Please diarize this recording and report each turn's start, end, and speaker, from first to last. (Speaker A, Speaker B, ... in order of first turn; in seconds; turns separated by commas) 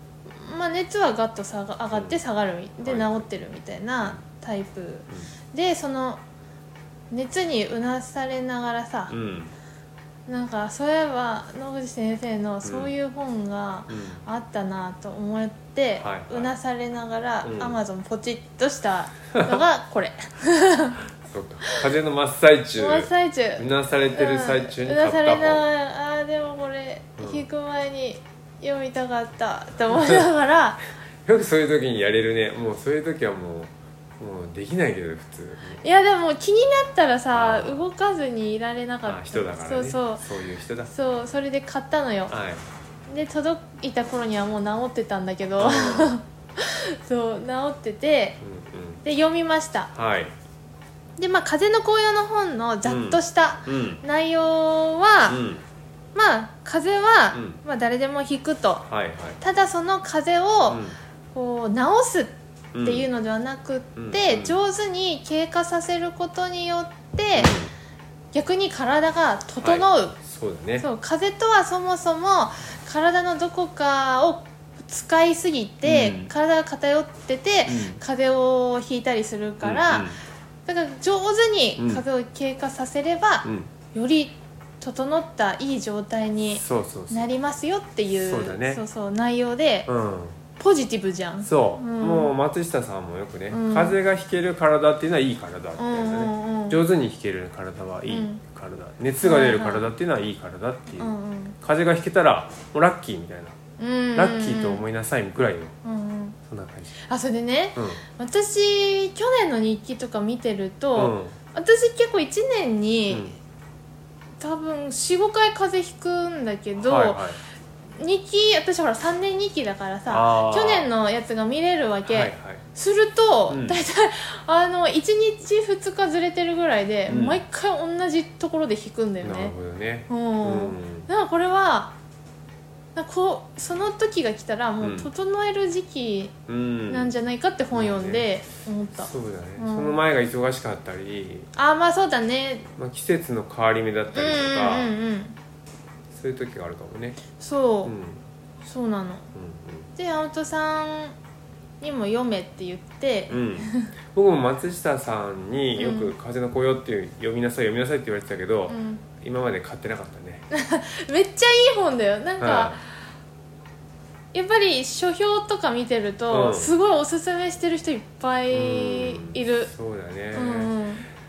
Speaker A: 0.2-6.2, Speaker B: 1.9-2.2, Speaker B: 2.8-3.2, Speaker A: 7.1-9.1, Speaker B: 9.1-9.5, Speaker A: 10.3-21.0, Speaker B: 12.6-12.9, Speaker B: 13.9-14.2, Speaker B: 16.0-16.5, Speaker B: 17.4-17.8, Speaker B: 19.3-19.6, Speaker B: 21.2-25.6, Speaker A: 22.8-30.8, Speaker B: 27.2-27.4, Speaker B: 29.9-30.2, Speaker B: 31.2-35.8, Speaker A: 35.8-40.2, Speaker B: 37.3-37.8, Speaker B: 39.0-40.9, Speaker A: 40.9-42.3, Speaker B: 42.3-42.6, Speaker A: 43.1-48.4, Speaker B: 45.6-46.2, Speaker B: 48.4-49.0, Speaker A: 49.0-49.9, Speaker B: 49.9-50.3, Speaker A: 51.2-55.4, Speaker B: 52.8-54.0, Speaker B: 55.3-55.6, Speaker A: 56.1-58.8, Speaker B: 57.3-57.6, Speaker B: 58.9-59.4, Speaker A: 59.4-67.6, Speaker B: 60.7-61.0, Speaker B: 62.7-63.1, Speaker B: 64.0-64.6, Speaker B: 67.3-67.7, Speaker A: 68.3-70.2, Speaker B: 69.6-70.9, Speaker A: 70.8-80.1, Speaker B: 75.8-76.3, Speaker B: 77.7-78.0, Speaker B: 79.6-80.2, Speaker A: 80.7-89.9, Speaker B: 81.8-82.0, Speaker B: 83.4-83.7, Speaker B: 86.5-87.3, Speaker B: 88.2-88.8, Speaker B: 89.9-90.4, Speaker A: 90.6-92.3, Speaker B: 91.4-103.6, Speaker A: 93.5-94.0, Speaker A: 95.8-96.8, Speaker A: 98.1-98.4, Speaker A: 99.2-99.9, Speaker A: 101.0-101.6, Speaker A: 103.8-104.8, Speaker B: 104.2-105.7, Speaker A: 105.8-106.4, Speaker B: 106.5-106.9, Speaker A: 107.0-113.3, Speaker B: 107.8-108.0, Speaker B: 111.0-111.3, Speaker B: 113.1-113.3, Speaker A: 114.4-117.2, Speaker B: 116.8-117.4, Speaker A: 118.0-129.5, Speaker B: 120.1-120.9, Speaker B: 122.1-122.6, Speaker B: 123.5-123.8, Speaker B: 127.1-127.4, Speaker B: 129.2-131.1, Speaker A: 130.1-131.9, Speaker A: 132.9-136.3, Speaker B: 134.8-135.1, Speaker B: 136.5-137.1, Speaker A: 136.9-140.0, Speaker B: 137.7-138.3, Speaker B: 138.9-141.5, Speaker A: 141.5-142.7, Speaker B: 142.8-144.9, Speaker A: 144.1-145.4, Speaker B: 146.1-147.2, Speaker A: 147.4-147.9, Speaker B: 147.8-148.2, Speaker A: 148.6-149.3, Speaker B: 149.3-149.9, Speaker A: 149.9-151.2, Speaker A: 151.8-153.9, Speaker B: 153.3-160.4, Speaker A: 155.8-156.1, Speaker A: 158.7-159.0, Speaker A: 160.5-162.8, Speaker B: 162.4-162.8, Speaker A: 164.3-169.7, Speaker B: 166.3-166.7, Speaker B: 168.5-170.7, Speaker A: 170.3-171.1